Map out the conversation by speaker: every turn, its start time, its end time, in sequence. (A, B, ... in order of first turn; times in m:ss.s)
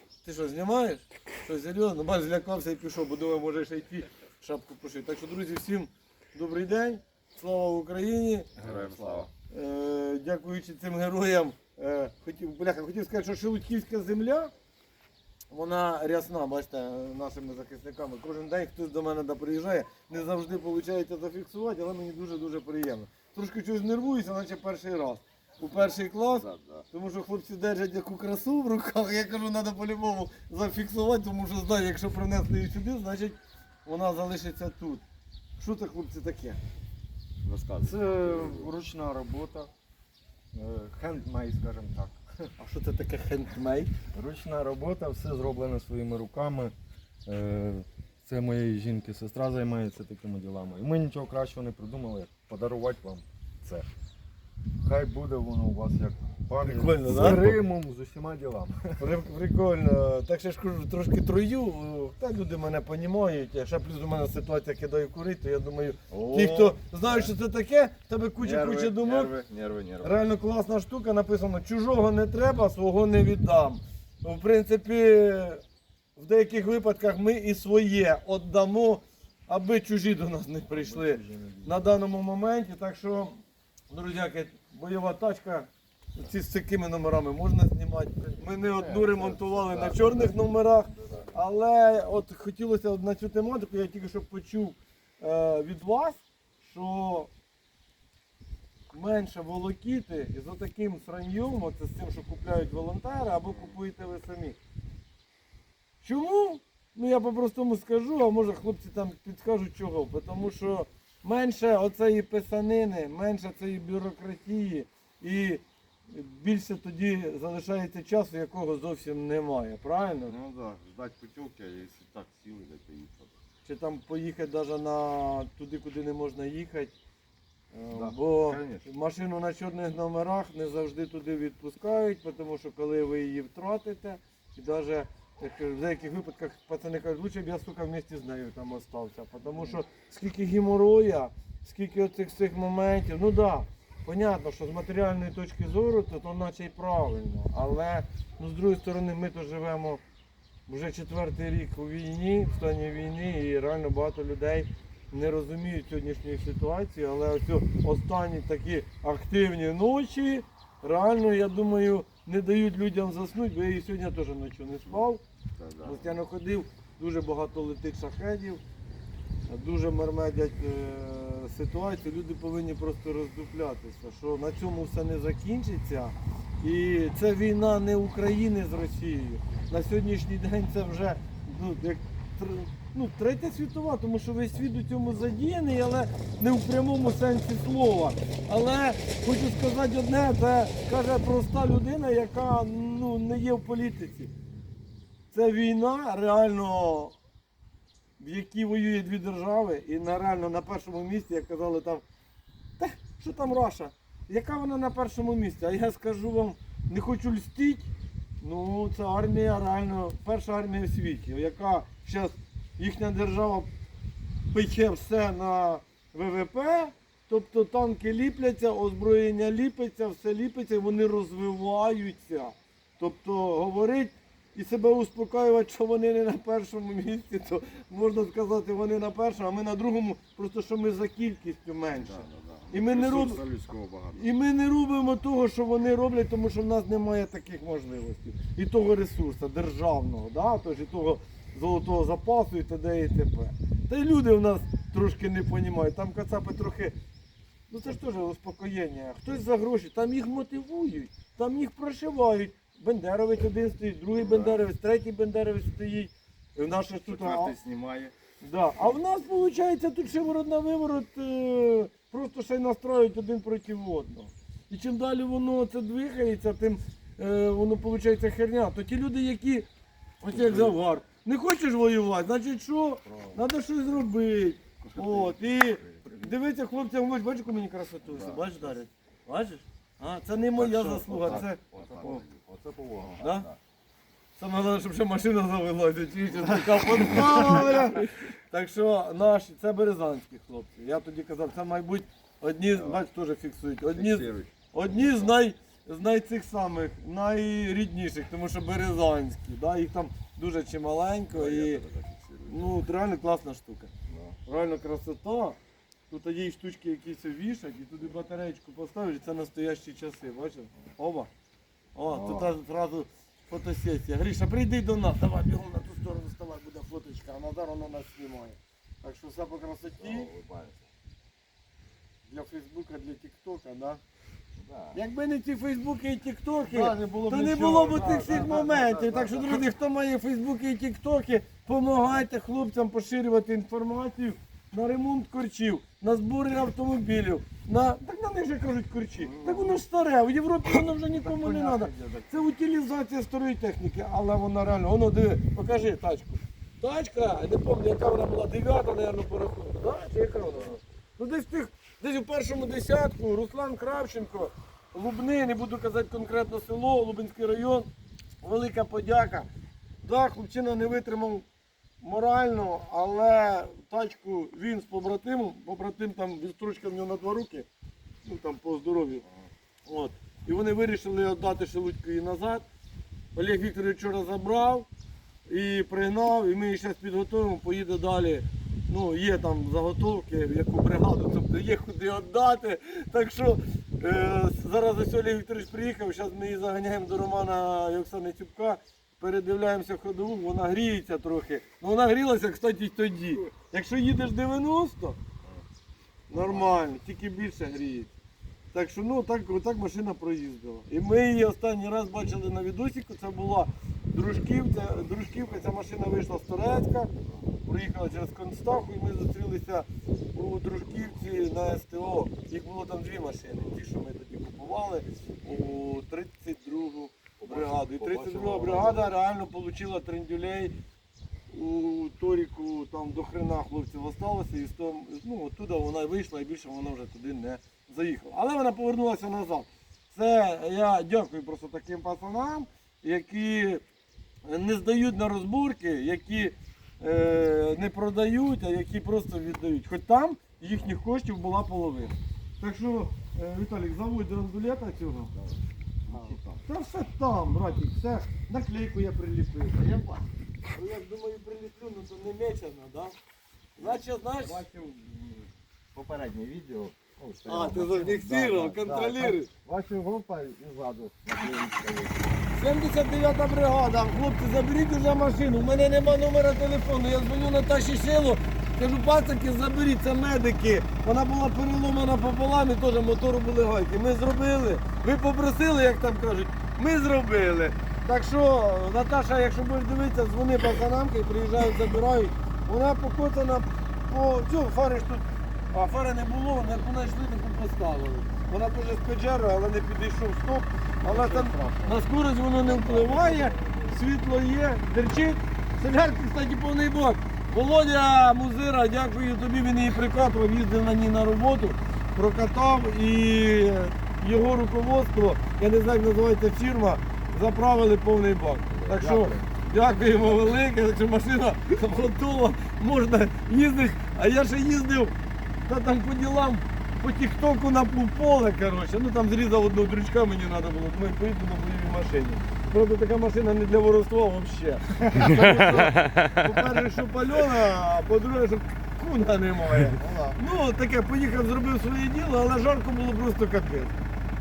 0:00.2-0:08.5 A
0:08.6-0:09.3 B
0:08.7-0:09.3 C
0:09.5-0:14.5 A
0:15.5-0:35.0 A
0:26.3-0:26.8 B
0:35.6-0:36.6 A
0:37.4-0:38.7 B
0:37.8-0:39.7 C
0:40.5-0:42.2 C
0:42.6-0:43.9 A
0:44.1-0:46.8 C
0:47.3-0:53.9 C
0:54.8-0:59.2 C
0:56.6-0:57.6 A
0:59.0-1:09.3 A
1:06.1-1:07.3 B
1:08.4-1:10.2 B
1:10.0-1:15.6 A
1:16.2-1:23.4 A
1:20.7-1:22.0 C
1:23.9-1:37.3 A
1:28.8-1:30.1 B
1:38.9-1:44.6 A
1:46.0-2:00.3 A
2:00.3-2:03.3 B
2:03.6-2:06.9 A
2:07.7-2:30.0 A
2:07.9-2:08.9 B
2:30.7-2:45.2 A
2:45.6-2:46.2 B
2:45.8-2:48.6 A
2:49.5-3:14.3 A
3:15.3-3:17.2 A
3:18.2-3:22.0 A
3:22.8-3:27.9 A
3:28.4-3:33.7 A
3:34.5-3:53.4 A
3:51.9-3:54.2 B
3:54.2-4:07.0 A
4:07.7-4:17.5 A
4:14.1-4:14.6 B
4:17.1-4:18.1 B
4:18.4-4:29.7 A
4:30.2-4:41.6 A
4:30.3-4:30.8 B
4:33.1-4:33.4 B
4:34.8-4:36.3 B
4:38.1-4:38.7 B
4:40.6-4:43.6 B
4:41.8-4:42.2 C
4:43.2-4:43.5 A
4:44.4-5:01.8 A
4:52.7-4:53.0 B
4:53.9-4:55.3 B
5:01.3-5:02.8 B
5:02.5-5:03.9 A
5:04.1-5:04.4 B
5:04.5-5:05.6 A
5:06.1-5:11.3 A
5:12.0-5:20.3 A
5:12.1-5:12.4 B
5:20.0-5:20.8 B
5:22.3-5:24.0 A
5:24.6-5:25.0 B
5:24.9-5:57.9 A
5:26.7-5:29.5 C
5:39.2-5:39.6 B
5:41.3-5:41.6 B
5:41.4-5:42.2 C
5:58.4-5:59.5 A
6:00.0-6:01.4 A
6:02.0-6:07.7 A
6:08.2-6:09.3 A
6:09.9-6:12.7 A
6:13.4-6:14.9 A
6:15.5-6:35.2 A
6:36.3-6:38.1 A
6:36.4-6:36.8 B
6:38.7-6:47.1 A
6:47.6-7:00.7 A
6:57.4-6:59.1 B
7:01.5-7:13.8 A
7:14.4-7:25.3 A
7:26.1-7:26.6 B
7:26.1-7:26.4 C
7:26.6-7:30.1 A
7:30.7-7:33.2 A
7:33.8-7:34.6 A
7:34.5-7:37.0 B
7:37.0-7:42.3 C
7:37.4-7:39.5 A
7:42.5-8:54.0 A
8:11.0-8:11.6 B
8:11.4-8:11.9 C
8:12.7-8:13.8 B
8:28.9-8:29.5 C